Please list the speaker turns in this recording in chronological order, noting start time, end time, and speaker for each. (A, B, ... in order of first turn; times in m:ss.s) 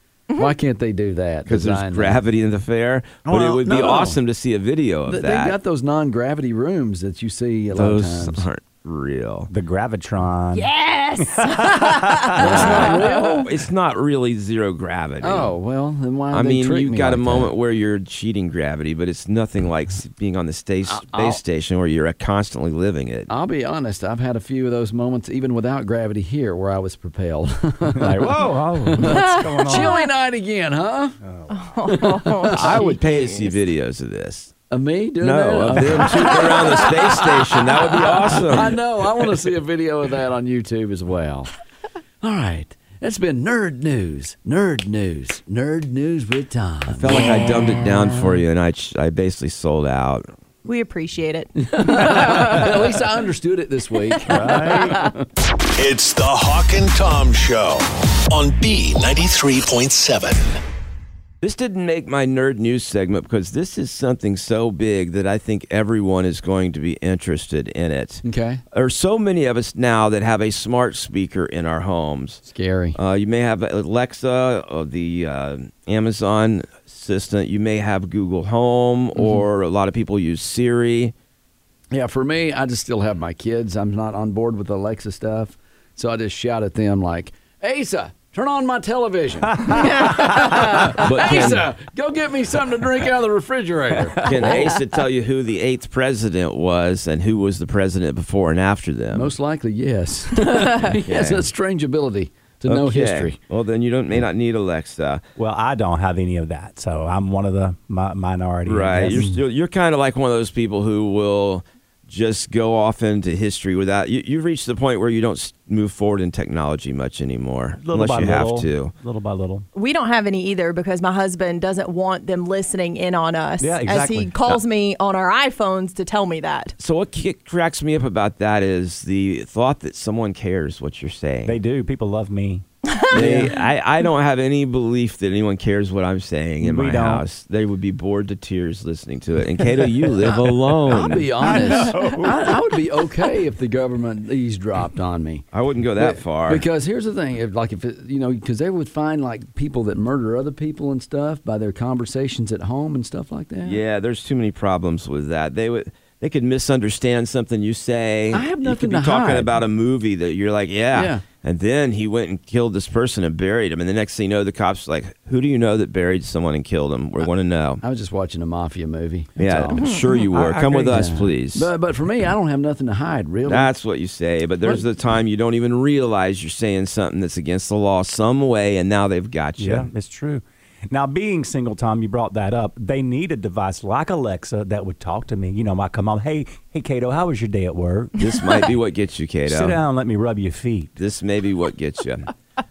0:00.4-0:02.2 A
0:01.5-0:05.6 B
0:03.3-0:04.2 A
0:05.1-0:08.5 A
0:07.7-0:09.5 B
0:09.5-0:12.9 C
0:10.5-0:13.4 D
0:12.4-0:13.5 A
0:12.4-0:15.5 B
0:15.2-0:17.5 A
0:16.3-0:23.3 B
0:20.9-0:21.4 A
0:23.3-0:28.3 A
0:28.0-0:30.0 C
0:28.9-0:31.2 A
0:29.0-0:30.1 D
0:31.2-0:31.5 C
0:31.5-0:33.6 D
0:31.8-0:33.0 A
0:32.5-0:34.5 B
0:34.7-0:41.5 A
0:35.2-0:38.8 B
0:42.2-0:48.2 A
0:46.9-0:50.3 B
0:50.6-0:52.9 D
0:51.6-0:55.2 A
0:54.3-0:55.0 C
0:55.8-1:00.6 E
1:01.4-1:12.4 B
1:08.2-1:08.6 A
1:12.5-1:13.0 A
1:13.0-1:21.1 B
1:19.2-1:19.4 A
1:21.9-1:34.8 A
1:29.6-1:30.6 C
1:29.7-1:31.0 D
1:30.9-1:31.7 B
1:34.2-1:39.3 B
1:39.1-1:43.4 A
1:41.1-1:41.5 B
1:42.7-1:45.2 B
1:45.4-1:49.3 C
1:48.7-1:58.9 B
1:57.8-1:59.7 C
1:59.7-2:06.7 D
2:03.6-2:04.4 C
2:06.8-2:11.6 B
2:11.4-2:13.5 C
2:12.9-2:13.4 D
2:13.1-2:21.3 B
2:13.2-2:13.5 A
2:16.6-2:17.2 C
2:20.2-2:20.6 C
2:20.9-2:25.4 A
2:21.4-2:22.7 C
2:25.5-2:26.7 B
2:26.0-2:33.8 A
2:33.6-2:47.8 B
2:38.3-2:39.6 A
2:40.9-2:41.2 A
2:47.8-2:49.9 A
2:49.4-2:51.7 B
2:49.8-2:50.3 D
2:50.3-2:51.1 C
2:50.9-2:53.7 A
2:53.5-2:59.9 B
2:59.6-3:08.2 C
3:08.2-3:09.8 B
3:09.5-3:10.9 C
3:11.0-3:12.3 B